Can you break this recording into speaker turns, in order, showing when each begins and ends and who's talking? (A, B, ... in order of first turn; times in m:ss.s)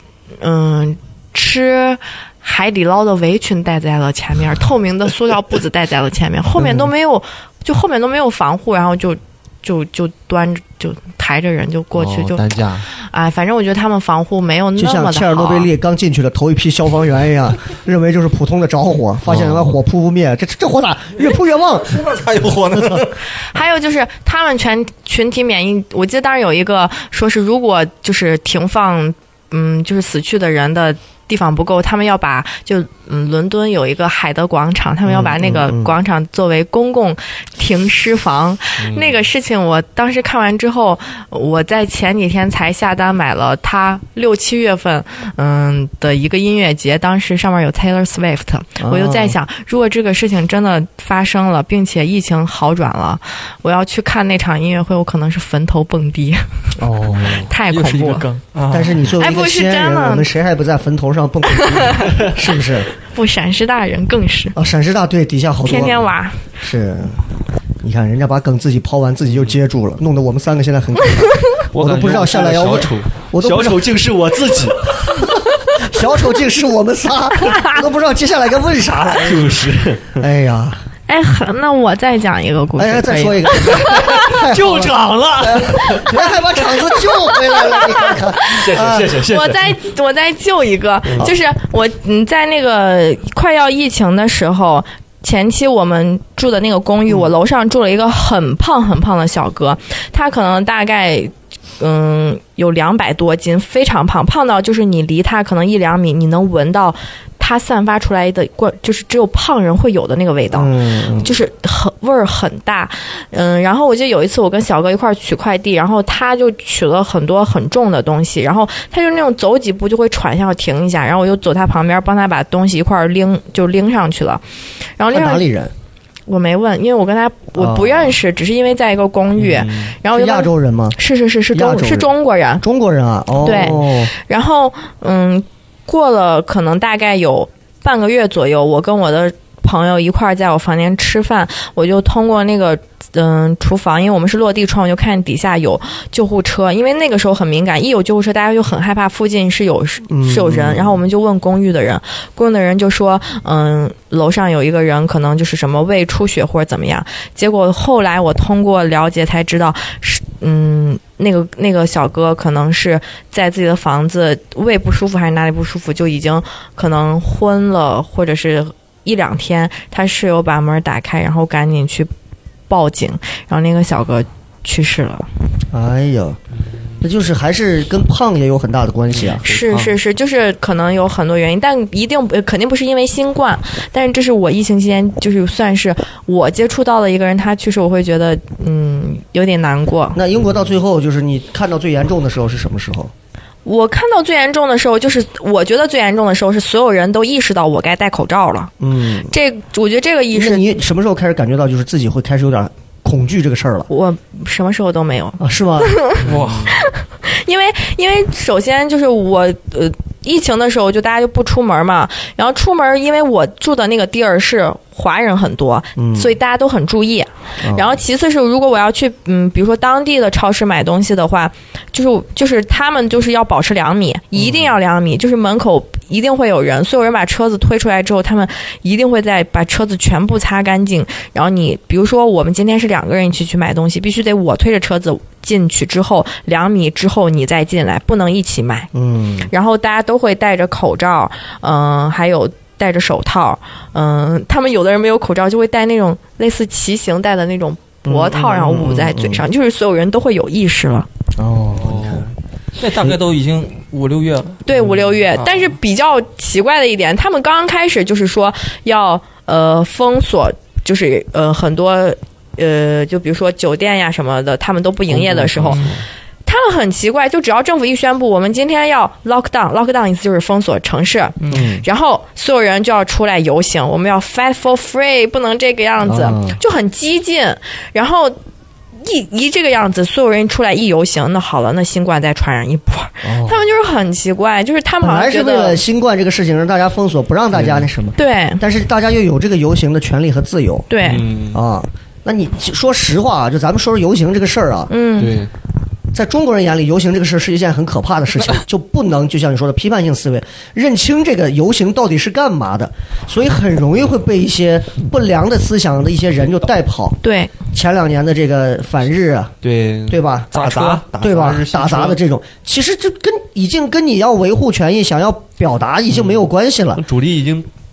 0:00.4-0:15.7 A
0:06.6-0:06.9 B
0:11.9-0:12.9 C
0:14.8-0:22.1 B
0:19.3-0:19.7 C
0:21.9-0:23.2 D
0:22.7-0:23.1 B
0:23.4-0:56.4 A
0:35.1-0:35.9 B
0:38.8-0:39.2 C
0:48.8-0:49.4 B
0:56.8-0:57.5 B
0:57.3-0:58.3 A
0:57.7-0:59.0 D
0:58.7-1:02.9 B
0:59.2-1:00.3 A
1:01.6-1:02.3 A
1:03.1-1:04.6 A
1:04.6-1:06.0 B
1:05.6-1:06.4 A
1:06.6-1:07.2 B
1:07.8-1:13.9 B
1:11.7-1:15.2 C
1:15.1-1:19.5 B
1:19.2-1:20.2 C
1:20.2-1:20.8 B
1:21.1-1:24.3 A
1:22.8-1:29.2 B
1:23.8-1:26.2 C
1:27.3-1:28.6 A
1:28.4-1:29.7 C
1:29.2-2:04.4 A
1:50.5-1:51.3 B
2:05.0-2:05.4 A
2:05.1-2:05.7 B
2:06.3-2:12.6 A
2:07.6-2:08.1 B
2:09.4-2:09.9 C
2:10.1-2:11.0 B
2:11.5-2:14.1 B
2:13.4-2:52.1 A
2:30.1-2:31.0 B
2:52.7-2:55.3 A
2:55.7-2:56.4 B
2:57.0-2:59.5 B
2:59.2-2:59.9 C
2:59.4-3:10.2 A
3:10.1-3:13.1 B
3:13.6-3:18.7 A
3:18.8-3:19.3 B
3:19.3-3:20.7 A
3:20.3-3:23.9 B
3:23.9-3:58.9 A
3:25.4-3:26.0 B
3:26.2-3:26.8 C
3:26.2-3:26.8 D
3:36.0-3:36.4 B
3:37.6-3:38.0 B
3:44.4-3:44.6 B
3:58.9-3:59.5 B
3:59.5-4:11.1 A
4:08.0-4:09.4 B
4:11.4-4:12.3 B
4:11.8-4:12.2 C
4:12.8-4:14.6 D
4:14.6-4:25.8 A
4:15.4-4:15.8 D
4:25.1-4:26.0 C
4:26.5-4:38.4 A
4:31.4-4:31.7 D
4:31.5-4:31.8 B
4:36.0-4:36.6 B
4:39.0-4:45.8 A
4:43.2-4:43.7 B
4:45.0-4:50.9 B
4:47.5-4:47.9 C
4:48.2-4:48.6 A
4:50.9-4:51.2 A
4:51.0-4:51.6 C
4:51.5-4:54.9 B
4:54.9-4:55.4 A
4:55.2-4:55.5 C
4:56.1-5:07.2 B
5:07.2-5:07.5 A
5:07.7-5:09.6 B
5:09.6-5:12.2 C
5:10.1-5:10.5 B
5:10.5-5:11.0 D
5:11.2-5:17.0 B
5:16.1-5:17.7 C